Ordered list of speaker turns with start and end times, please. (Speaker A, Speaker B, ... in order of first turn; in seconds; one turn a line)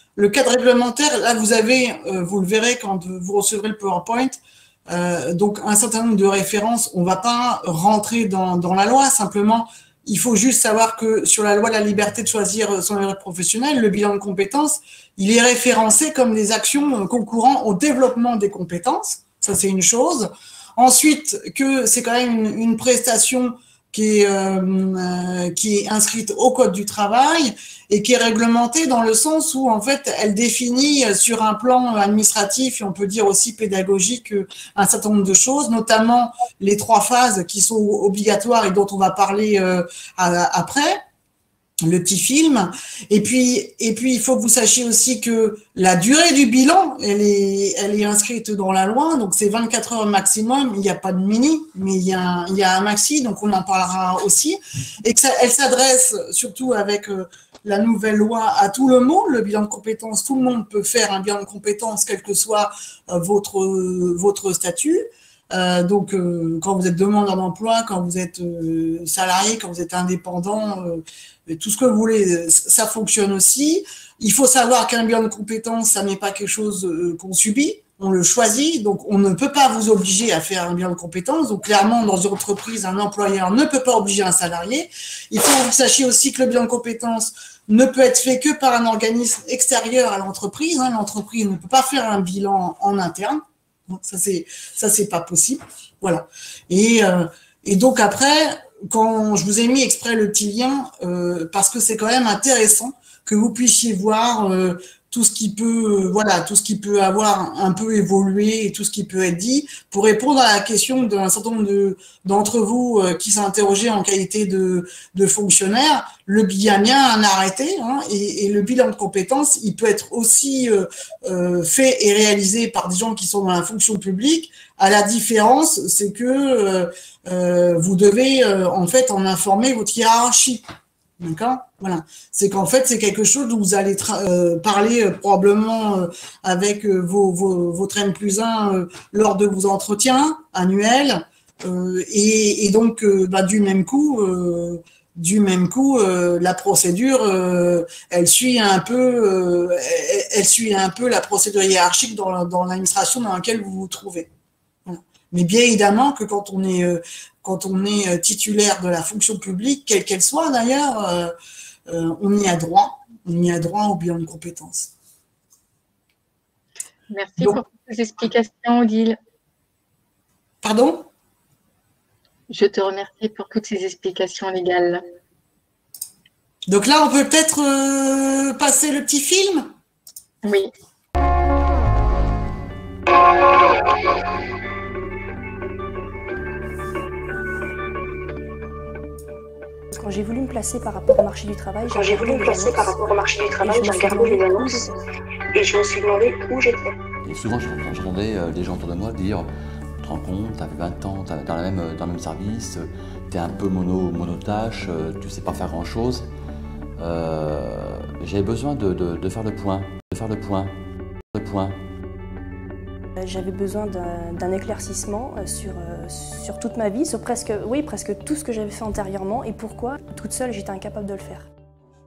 Speaker A: 0.1-41.0
Speaker A: 41.8-130.6
Speaker A: 131.2-154.3
Speaker A: 154.8-161.3
Speaker A: 161.9-164.9
Speaker B: 167.1-169.2
Speaker A: 170.6-171.1
Speaker B: 172.5-175.0
Speaker A: 176.7-179.7
Speaker B: 180.4-180.7
Speaker C: 189.9-193.0
Speaker D: 191.9-194.9
Speaker C: 193.6-195.0
Speaker D: 195.5-196.9
Speaker E: 197.2-206.3
Speaker E: 207.0-210.8
Speaker E: 211.3-211.8
Speaker C: 213.2-221.5